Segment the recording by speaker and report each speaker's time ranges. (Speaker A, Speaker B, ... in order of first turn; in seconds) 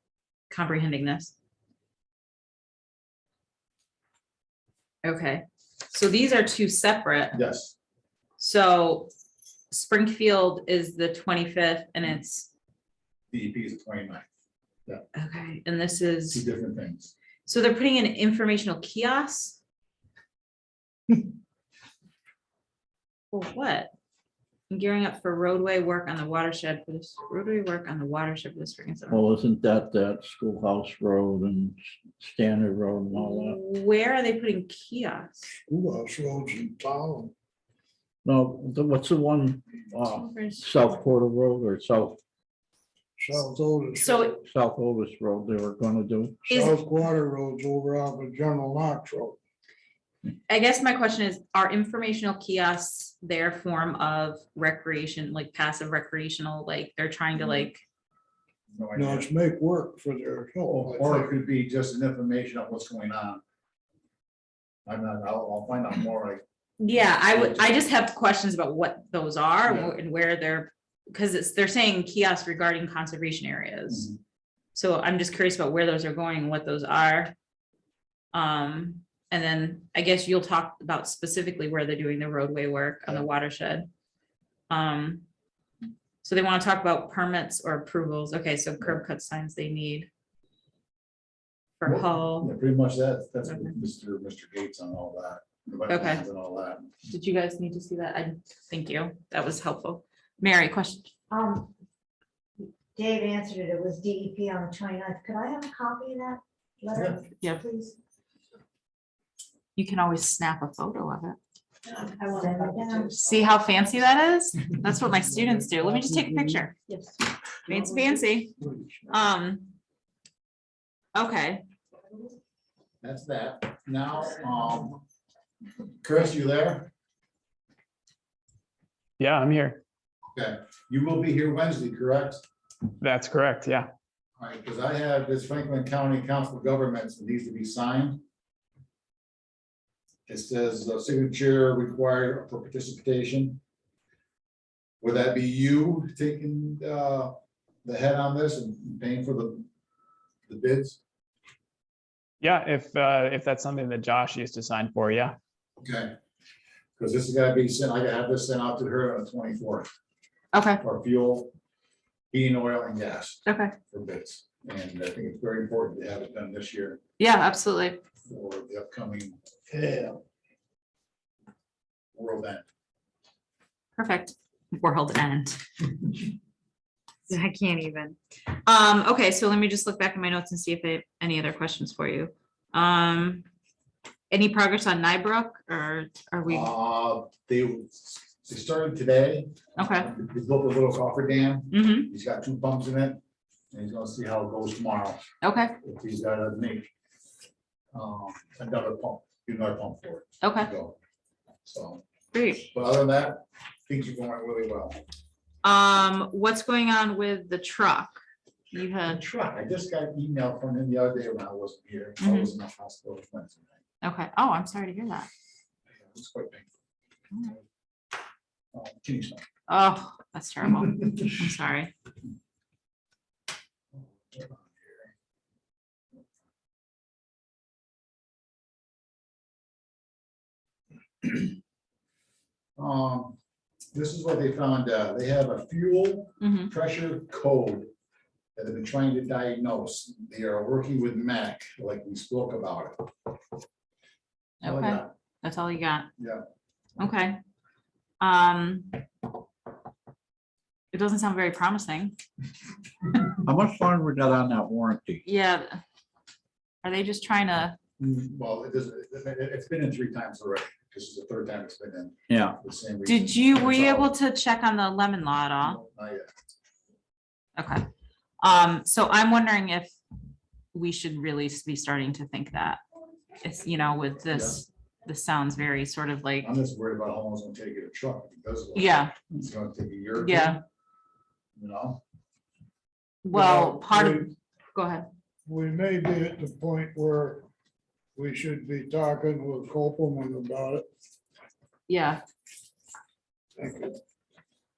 Speaker A: 0.5-1.4, 5.0-7.4, 8.4-9.1, 9.7-12.5, 15.2-16.4, 17.5-19.6, 23.3-23.9, 24.7-29.2, 33.1-35.5, 40.1-41.0, 44.0-44.4, 46.5-46.8, 50.5-57.8, 66.8-74.1, 74.7-77.3, 78.3-83.9, 84.7-85.2, 86.2-90.1, 91.8-92.5, 95.9-96.2, 97.1-101.1, 109.8-111.4, 112.6-116.8, 117.6-118.6, 119.1-119.7, 121.2-121.6, 160.5-160.8, 163.5-163.8, 167.2-168.0, 174.0-175.6, 177.3-183.4, 184.3-186.7, 189.8-190.1, 191.7-192.1, 195.4-195.8, 200.4-200.7, 202.3-202.7, 205.6-208.2, 208.7-209.2, 212.2-212.5, 214.0-215.3, 219.7-221.9, 236.4-236.7, 244.6-246.1, 247.0-247.4, 248.2-249.0, 250.9-252.2, 255.2-255.8, 256.8-257.8, 263.1-265.8, 267.6-267.9, 268.4-270.0, 270.7-272.8, 273.4-276.5, 278.8-279.1, 280.2-280.6, 283.2-285.1, 291.9-292.2
Speaker B: 7.3-7.8, 13.3-14.3, 16.3-17.1, 58.7-59.3, 60.6-63.4, 64.9-66.4, 67.3-67.8, 69.7-69.9, 73.9-74.2, 91.8-96.9, 123.0-125.0, 126.0-126.9, 130.3-132.4, 134.4-138.2, 140.3-143.6, 145.0-147.3, 147.8-149.7, 150.5-151.0, 155.8-156.1, 157.0-159.9, 160.8-161.5, 162.3-167.0, 168.3-170.1, 172.1-172.6, 186.5-193.2, 193.7-195.2, 195.8-196.9, 197.9-201.0, 201.6-202.0, 202.7-205.0, 209.1-213.7, 216.0-216.7, 218.7-219.4, 223.9-225.1, 232.8-233.4, 233.9-237.9, 238.6-243.1, 244.6-245.1, 246.2-246.4, 258.0-264.1, 265.6-266.4, 274.3-274.6, 276.4-280.6, 281.6-282.0
Speaker C: 29.1-33.6, 38.2-42.2, 44.5-46.4, 253.4-255.2, 262.3-262.6
Speaker D: 35.7-37.3, 43.2-44.4, 46.4-49.4, 59.0-61.3, 115.1-116.7, 117.7-119.1, 283.3-284.3, 285.5-287.5, 288.2-290.9, 293.6-293.9
Speaker E: 101.3-101.7, 102.6-108.0, 111.9-113.3
Speaker F: 129.2-129.8, 133.0-133.9, 152.4-155.4